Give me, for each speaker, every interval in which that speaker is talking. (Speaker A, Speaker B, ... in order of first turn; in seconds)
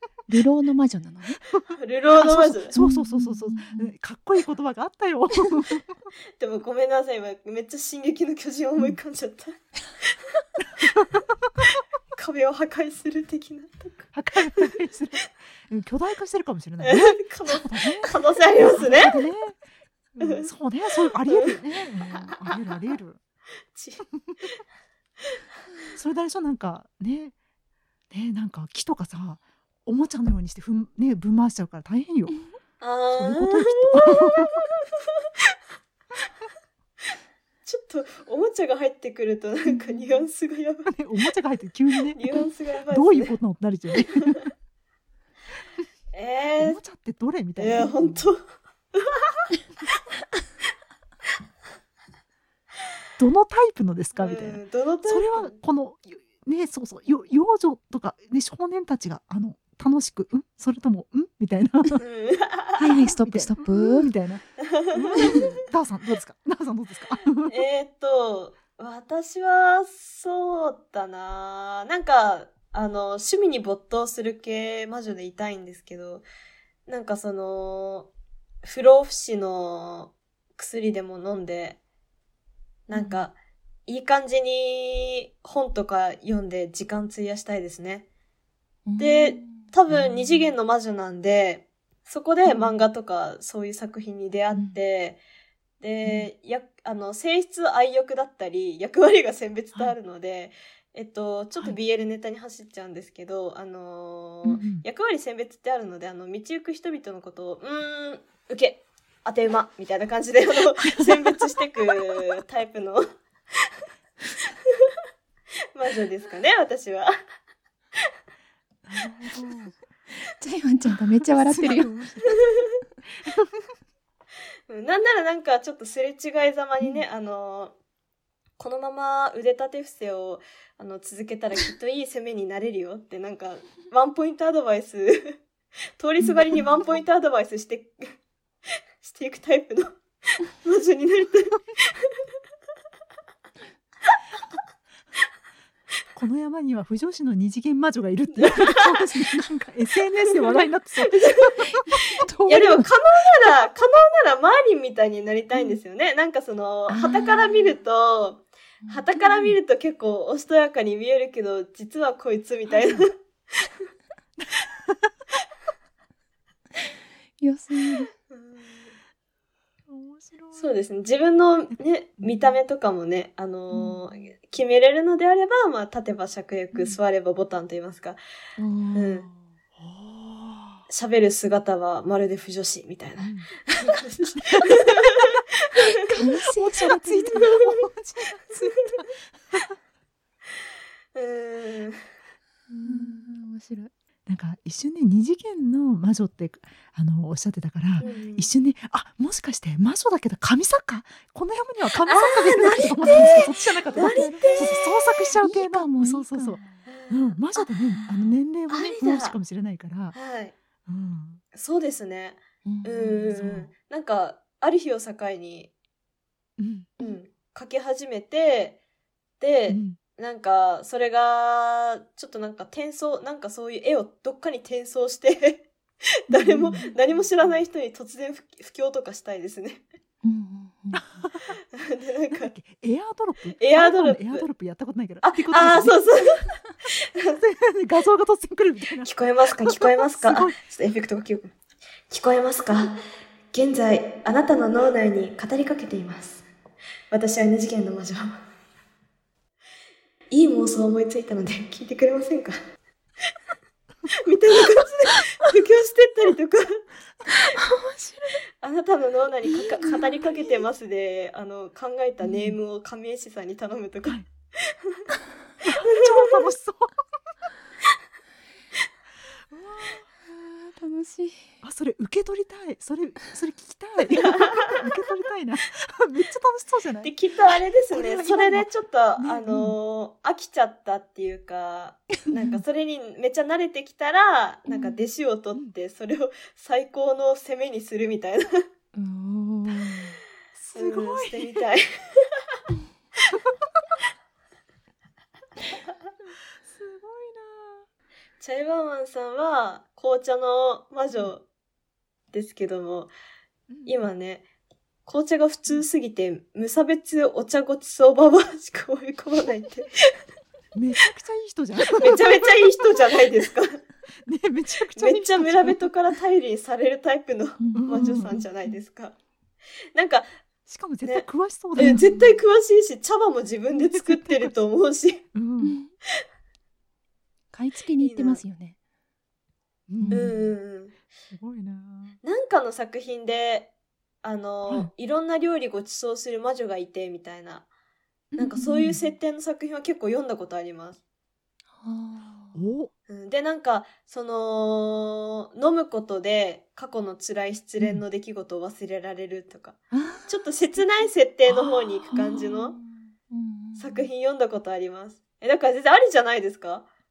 Speaker A: 0.3-1.4, 2.7-3.9, 39.9-40.2, 62.8-64.1, 82.9-83.2, 88.8-89.6, 120.3-121.9, 156.9-157.7, 158.8-159.5, 167.4-168.1, 178.6-179.2, 186.1-187.5, 192.7-193.9, 203.1-203.5, 204.1-204.8, 205.4-206.8, 212.6-213.4, 230.2-231.0, 257.6-258.4, 259.7-260.3, 270.2-271.5, 284.7-284.9, 288.9-290.2, 317.6-318.3, 321.8-322.2, 325.6-325.9, 327.5-328.8, 330.0-330.4, 341.8-342.6, 349.9-351.1, 352.1-354.1
Speaker B: 1.8-2.7, 6.4-10.4, 11.6-14.8, 16.8-19.2, 20.2-20.5, 21.1-21.5, 23.7-24.6, 32.8-34.6, 37.6-40.9, 42.2-43.4, 46.1-46.8, 47.6-48.4, 48.9-49.4, 54.1-55.6, 62.0-62.8, 64.7-65.4, 67.4-76.2, 76.9-78.1, 78.6-81.8, 82.9-83.3, 83.8-88.0, 89.0-95.2, 95.8-113.0, 115.7-117.1, 124.7-127.7, 128.6-135.4, 136.0-138.1, 139.0-142.1, 148.3-148.9, 151.0-151.5, 152.0-163.1, 168.3-168.9, 170.6-178.2, 178.9-179.2, 180.9-185.9, 187.2-187.5, 191.1-192.0, 198.0-198.5, 202.1-205.2, 206.8-207.7, 208.7-209.3, 210.1-210.5, 211.5-215.7, 217.0-218.8, 219.4-225.7, 226.3-229.8, 231.7-232.5, 233.6-234.5, 235.2-236.4, 239.0-241.5, 242.1-242.9, 243.5-246.4, 247.1-248.3, 250.3-252.6, 254.2-256.8, 258.6-265.0, 277.0-288.6, 290.7-291.8, 298.4-301.4, 302.3-303.1, 303.9-304.4, 305.1-309.9, 311.9-313.8, 314.9-319.1, 319.9-320.3, 321.0-325.2, 328.0-328.4, 330.1-330.9, 332.2-333.7, 334.2-337.7, 338.4-341.0, 343.1-352.8, 353.8-356.9
Speaker C: 2.2-6.0, 10.8-11.5, 14.1-19.6, 20.1-23.2, 25.9-27.3, 28.1-32.3, 33.1-34.5, 40.9-42.3, 42.9-44.4, 46.6-48.3, 53.2-62.0, 62.8-67.6, 89.9-90.2, 94.5-94.8, 104.4-104.8, 118.8-119.8, 120.9-122.4, 123.3-123.5, 146.1-151.7, 152.2-152.9, 162.7-163.0, 164.4-165.1, 169.9-170.7, 171.7-172.6, 179.7-180.8, 183.2-183.5, 186.1-189.7, 192.8-193.3, 194.3-210.2, 210.8-211.4, 213.3-213.7, 216.6-217.0, 219.7-220.0, 226.3-227.6, 230.9-231.6, 232.3-236.0, 237.4-240.6, 262.2-262.5, 265.6-266.9, 269.5-270.0, 271.6-277.1, 277.9-279.8, 290.6-291.5, 296.6-297.8, 303.7-304.0, 310.7-312.6, 314.2-315.9, 317.7-318.4, 320.6-322.1, 323.7-324.5, 325.3-325.8, 329.9-330.5, 331.3-332.1, 338.3-339.0, 342.5-342.9, 351.5-352.1